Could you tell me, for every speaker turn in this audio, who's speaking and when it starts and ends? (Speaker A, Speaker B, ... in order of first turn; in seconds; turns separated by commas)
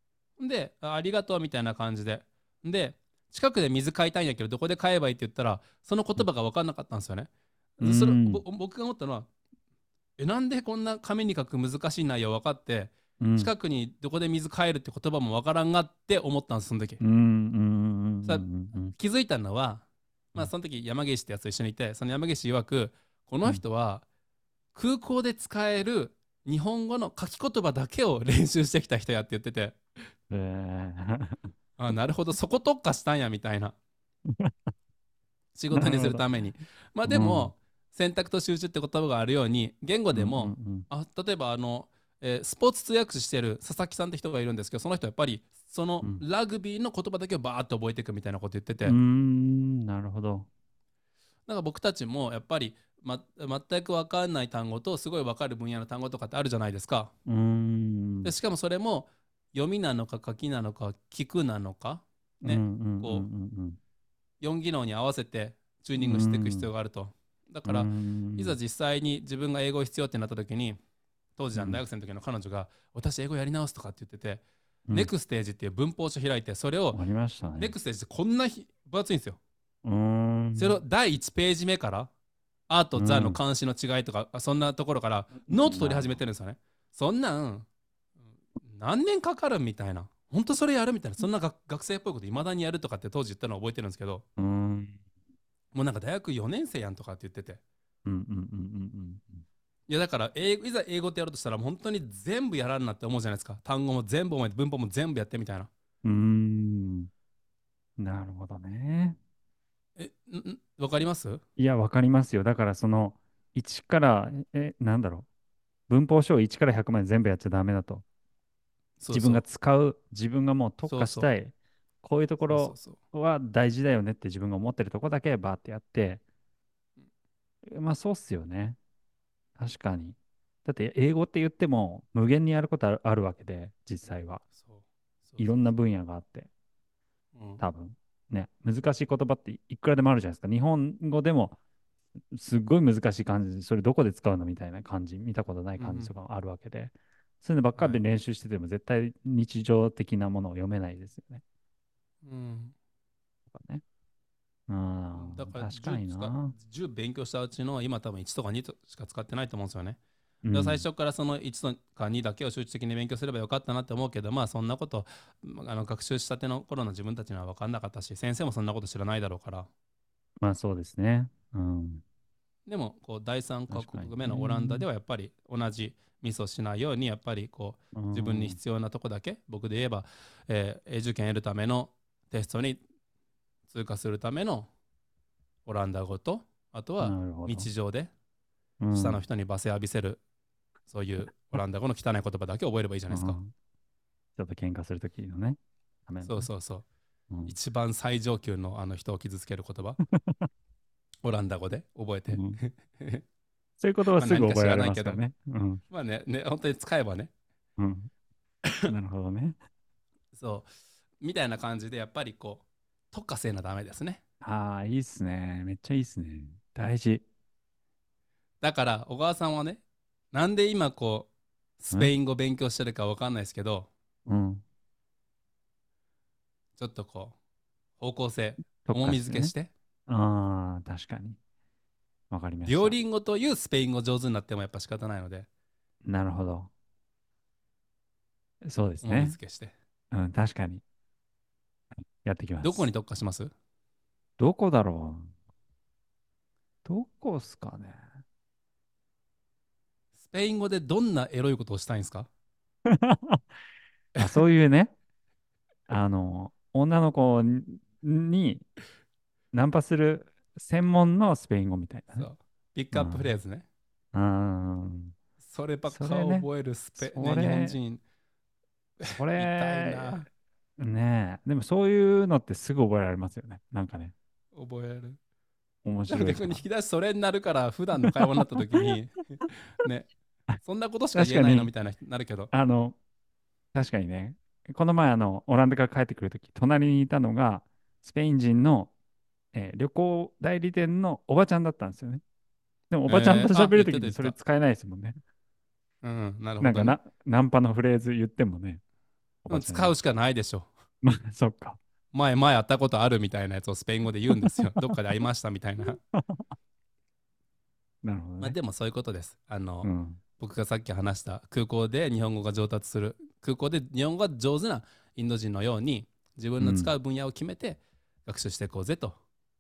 Speaker A: 0.4-9.3, Speaker B: 7.8-8.4, Speaker A: 10.2-17.0, Speaker B: 13.2-13.5, Speaker B: 17.0-18.9, Speaker A: 18.2-24.1, Speaker A: 24.7-29.8, Speaker B: 30.3-31.5, Speaker A: 31.8-33.8, Speaker B: 34.3-34.5, Speaker A: 35.5-49.0, Speaker B: 35.7-36.3, Speaker B: 37.1-37.5, Speaker B: 40.1-40.9, Speaker B: 48.9-50.5, Speaker A: 51.5-57.1, Speaker B: 57.3-58.3, Speaker A: 58.2-63.3, Speaker B: 62.4-63.8, Speaker A: 64.4-70.8, Speaker B: 66.0-66.7, Speaker B: 67.7-68.6, Speaker A: 71.4-77.0, Speaker B: 71.5-71.8, Speaker B: 76.9-77.7, Speaker A: 77.6-79.4, Speaker B: 79.8-80.8, Speaker A: 80.6-82.1, Speaker A: 82.7-87.7, Speaker B: 83.0-83.4, Speaker B: 85.5-86.2, Speaker A: 88.6-94.2, Speaker B: 94.4-95.0, Speaker A: 95.7-97.6, Speaker B: 98.1-99.5, Speaker A: 99.9-105.7, Speaker B: 106.0-107.1, Speaker B: 108.0-109.2, Speaker A: 110.0-111.4, Speaker B: 111.6-115.3, Speaker B: 115.9-118.0, Speaker A: 119.0-119.4, Speaker B: 119.1-126.2, Speaker A: 120.8-121.3, Speaker A: 122.4-123.0, Speaker B: 127.7-128.8, Speaker B: 129.6-134.4, Speaker A: 134.5-135.6, Speaker B: 135.4-136.5, Speaker A: 137.3-137.6, Speaker B: 137.6-141.6, Speaker B: 142.3-151.4, Speaker A: 145.8-146.1, Speaker A: 147.8-148.0, Speaker A: 152.2-152.7, Speaker B: 153.5-153.8, Speaker B: 154.7-156.5, Speaker A: 155.1-160.0, Speaker B: 160.4-160.9, Speaker A: 160.5-169.7, Speaker B: 170.4-172.0, Speaker A: 172.7-182.8, Speaker B: 173.7-174.9, Speaker B: 177.9-178.6, Speaker A: 183.7-184.7, Speaker A: 185.7-188.1, Speaker B: 187.0-187.7, Speaker B: 188.8-189.2, Speaker A: 188.9-190.2, Speaker A: 190.9-193.4, Speaker B: 193.1-193.5, Speaker B: 194.4-196.5, Speaker A: 196.2-196.9, Speaker B: 197.3-197.6, Speaker A: 197.5-200.0, Speaker B: 200.1-200.5, Speaker A: 201.2-203.2, Speaker B: 202.3-202.6, Speaker B: 203.8-205.8, Speaker A: 204.1-205.2, Speaker A: 205.9-207.3, Speaker B: 207.8-208.1, Speaker B: 208.9-209.6, Speaker A: 210.3-210.7, Speaker A: 211.2-214.2, Speaker B: 214.4-217.2, Speaker A: 218.6-223.9, Speaker B: 224.3-224.6, Speaker A: 226.8-227.4, Speaker A: 228.0-229.7, Speaker B: 228.8-229.5, Speaker B: 230.1-231.4, Speaker B: 232.3-233.0, Speaker A: 232.7-235.5, Speaker B: 236.1-236.7, Speaker B: 238.6-239.4, Speaker A: 239.0-239.7, Speaker B: 240.1-240.8, Speaker B: 242.2-242.9, Speaker A: 242.6-243.5, Speaker B: 244.4-245.3, Speaker B: 246.8-248.0, Speaker A: 250.2-252.3, Speaker B: 252.9-253.4, Speaker A: 254.2-254.4, Speaker B: 254.2-254.9, Speaker B: 255.9-258.7, Speaker B: 259.5-262.3, Speaker A: 262.1-263.7, Speaker B: 262.9-263.3, Speaker B: 264.1-265.2, Speaker A: 265.4-268.0, Speaker B: 265.9-267.8, Speaker A: 269.0-270.3, Speaker B: 269.1-270.2, Speaker B: 270.8-274.1, Speaker A: 274.5-275.2, Speaker B: 275.8-276.6, Speaker A: 276.1-282.5, Speaker B: 281.1-281.7, Speaker B: 282.5-283.0, Speaker B: 283.7-288.9, Speaker B: 289.5-292.2, Speaker B: 292.9-295.2, Speaker A: 293.1-294.4, Speaker A: 296.0-297.0, Speaker B: 296.6-298.8, Speaker B: 299.4-299.9, Speaker A: 299.5-300.7, Speaker B: 301.0-301.8, Speaker A: 302.1-306.0, Speaker B: 306.1-306.4, Speaker B: 308.0-308.6, Speaker A: 308.4-319.2, Speaker B: 309.8-310.2, Speaker B: 316.6-316.9